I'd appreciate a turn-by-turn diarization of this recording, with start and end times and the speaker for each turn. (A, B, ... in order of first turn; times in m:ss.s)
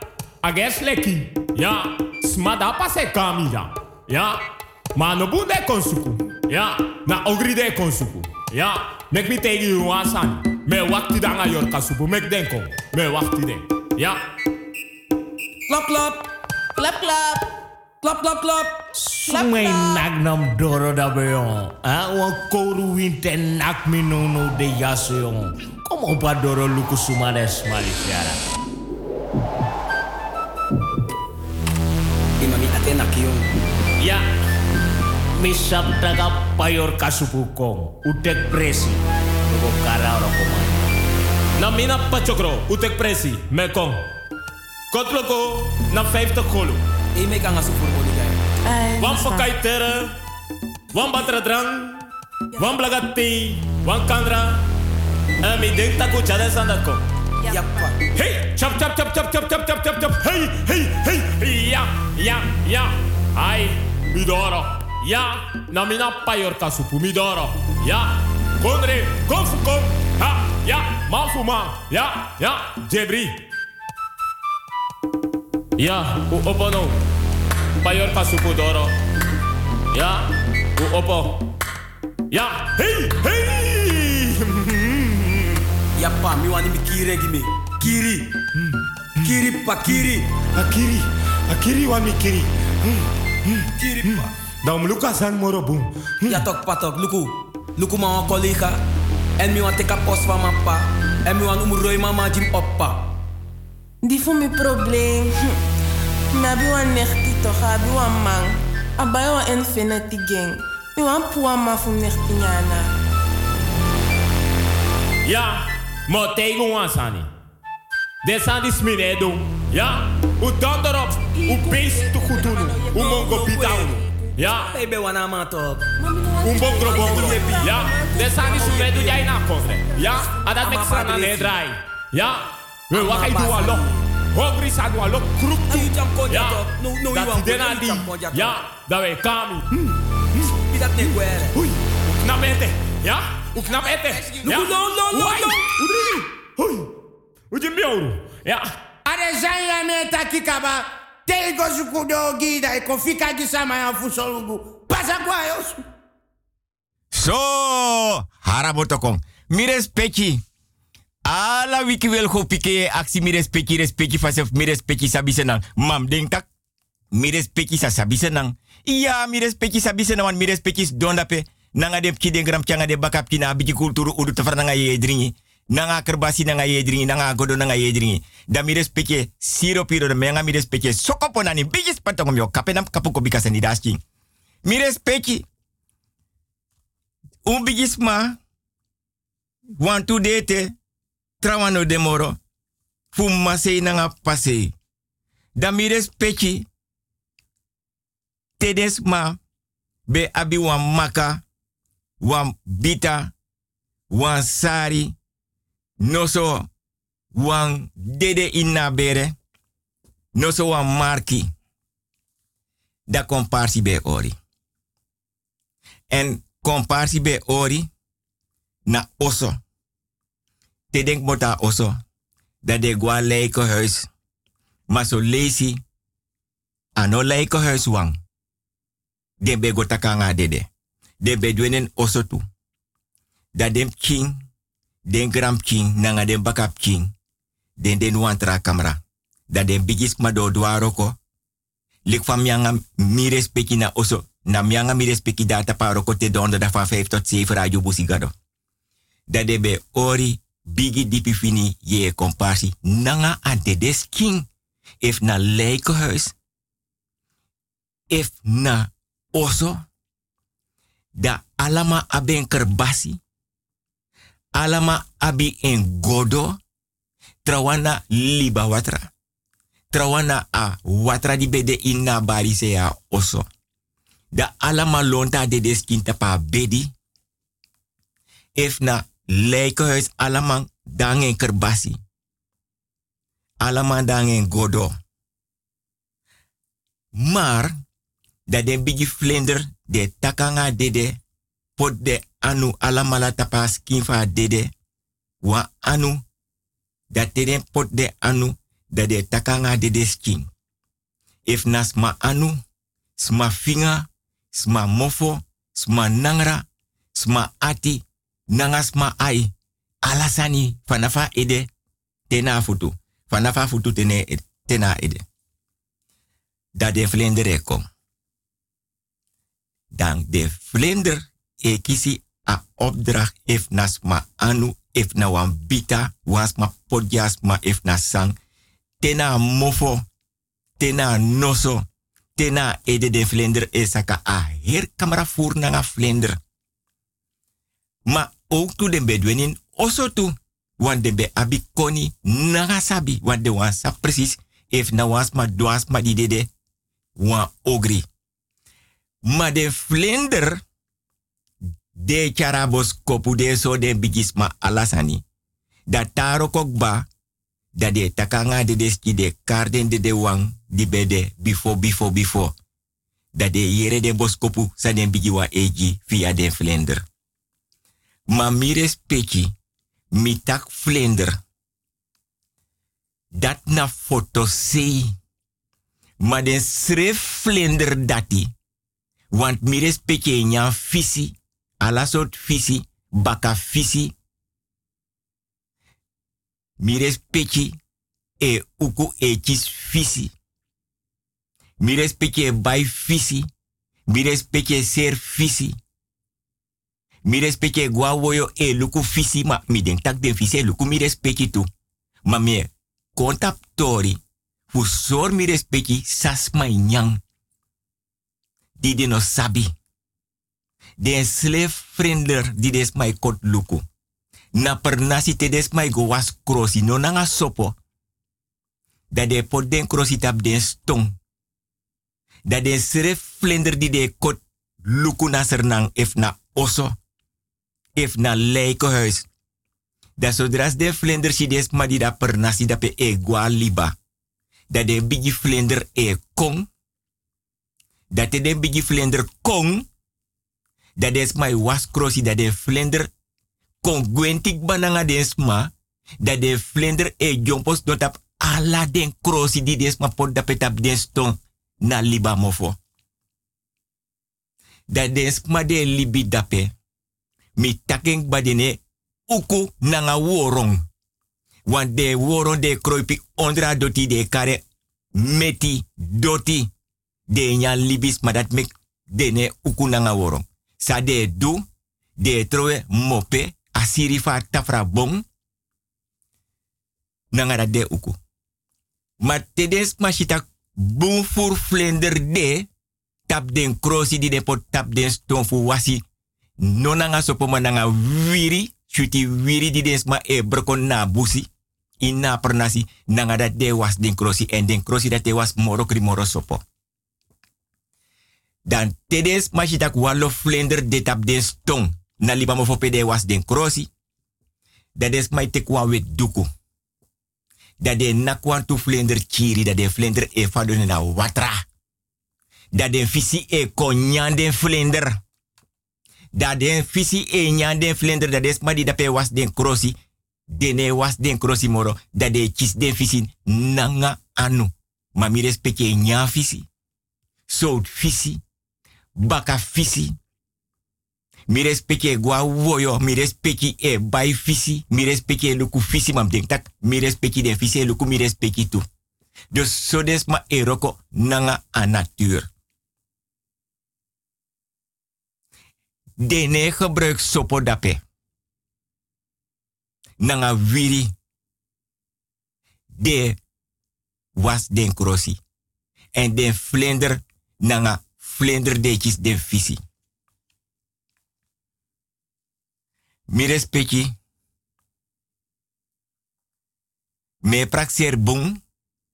0:00.4-0:14.2 A
0:15.7-0:16.2 B
0:16.8-0:17.4 C
0:18.0-0:18.8 B
0:19.0-0:28.4 D
0:32.4-0:33.5 B
0:35.4-0:40.8 D
0:41.6-0:44.0 A
0:44.9-0:46.8 A
0:47.2-0:48.4 B
0:48.7-0:49.6 C
0:49.0-0:50.1 A
0:50.9-0:52.0 A
0:52.6-0:54.6 A
0:55.4-0:57.0 A
0:57.5-0:58.0 B
0:58.2-1:13.4 A
1:15.8-1:17.0 A
1:17.8-1:18.9 A
1:19.9-1:21.4 A
1:22.3-1:25.4 A
1:26.0-1:28.3 B
1:29.2-1:30.3 B
1:30.6-1:32.5 A
1:34.0-1:35.9 A
1:36.3-1:38.8 B
1:39.4-1:43.0 B
1:44.0-1:45.6 C
1:46.3-1:52.9 C
1:55.2-1:57.3 A
1:58.2-2:04.8 A
2:02.8-2:03.8 B
2:04.7-2:05.9 B
2:06.2-2:07.0 C
2:06.4-2:19.7 A
2:06.8-2:09.3 B
2:10.6-2:11.6 B
2:12.9-2:13.8 B
2:15.7-2:18.6 B
2:20.6-2:21.6 B
2:22.2-2:26.9 A
2:23.7-2:25.9 B
2:27.5-2:28.7 A
2:29.1-2:35.8 E
2:37.1-2:40.4 F
2:41.3-2:46.5 F
2:47.1-3:04.0 F
3:04.6-3:05.4 F
3:07.5-3:08.4 F
3:09.8-3:10.7 F
3:11.4-3:12.4 F
3:13.1-3:14.7 F
3:15.6-3:16.7 F
3:18.6-3:19.4 F
3:20.1-3:21.4 F
3:22.2-3:23.3 F
3:24.1-3:25.2 F
3:26.0-3:26.7 F
3:27.4-3:29.3 F
3:30.4-3:31.5 F
3:33.1-3:34.4 F
3:36.1-3:37.9 F
3:38.9-3:39.6 F
3:40.9-3:42.0 F
3:42.6-3:44.1 F
3:44.9-3:45.8 F
3:47.0-3:48.2 F
3:49.4-3:50.7 F
3:51.2-3:52.4 F
3:53.6-3:54.4 F
3:55.1-3:57.1 F
3:57.8-3:59.0 F
3:59.5-4:01.2 F
4:02.1-4:08.3 F
4:09.3-4:14.5 F
4:15.0-4:16.4 F
4:18.1-4:19.8 F
4:21.2-4:23.2 F
4:24.6-4:26.6 F
4:27.4-4:29.1 F
4:29.9-4:33.5 F
4:34.3-4:36.9 F
4:38.6-4:42.0 F
4:43.6-4:44.9 F
4:47.2-4:47.7 F
4:48.5-4:51.2 F
4:51.8-4:54.7 F
4:55.4-4:56.2 F
4:57.1-5:00.5 F
5:01.5-5:02.6 F
5:03.2-5:06.6 F
5:07.2-5:09.5 F
5:10.0-5:11.7 F
5:12.3-5:15.2 F
5:16.8-5:17.8 F
5:19.9-5:28.4 F
5:29.0-5:30.0 F
5:30.8-5:31.8 F
5:32.4-5:36.4 F
5:38.1-5:46.5 F
5:47.2-5:48.0 F
5:49.3-5:50.6 F
5:52.0-5:55.2 F
5:55.9-5:57.1 F
5:57.8-6:02.5 F
6:03.4-6:07.0 F
6:08.3-6:09.5 F
6:10.2-6:11.3 F
6:13.4-6:15.1 F
6:16.2-6:18.5 F
6:19.3-6:24.1 F
6:26.8-6:27.8 F
6:28.4-6:30.3 F
6:31.8-6:33.5 F
6:34.1-6:35.8 F
6:37.3-6:41.7 F
6:42.3-6:44.2 F
6:44.7-6:47.2 F
6:48.8-6:49.7 F
6:51.0-6:53.8 F
6:54.6-6:57.7 F
6:59.1-7:01.2 F
7:02.5-7:07.0 F
7:08.0-7:09.3 F
7:10.2-7:14.0 F
7:14.7-7:16.7 F
7:18.1-7:19.9 F
7:21.0-7:23.1 F
7:23.8-7:25.7 F
7:26.2-7:32.8 F
7:34.9-7:36.7 F
7:37.6-7:38.8 F
7:39.3-7:40.8 F
7:41.7-7:44.6 F
7:45.2-7:46.7 F
7:47.3-7:51.6 F
7:52.2-7:55.2 F
7:57.3-7:58.2 F
7:59.2-8:02.7 F
8:03.3-8:06.0 F
8:06.6-8:11.5 F
8:12.0-8:16.6 F
8:18.7-8:23.9 F
8:25.0-8:26.5 F
8:27.8-8:31.6 F
8:32.7-8:35.2 F
8:36.3-8:40.0 F
8:40.5-8:46.7 F
8:47.5-8:48.4 F
8:49.2-8:50.1 F
8:51.5-8:58.8 F
8:59.5-9:02.5 F
9:06.2-9:08.0 F
9:10.2-9:11.1 F
9:13.0-9:13.4 F
9:14.4-9:15.4 F
9:16.2-9:19.8 F
9:23.3-9:24.1 F
9:27.4-9:28.6 F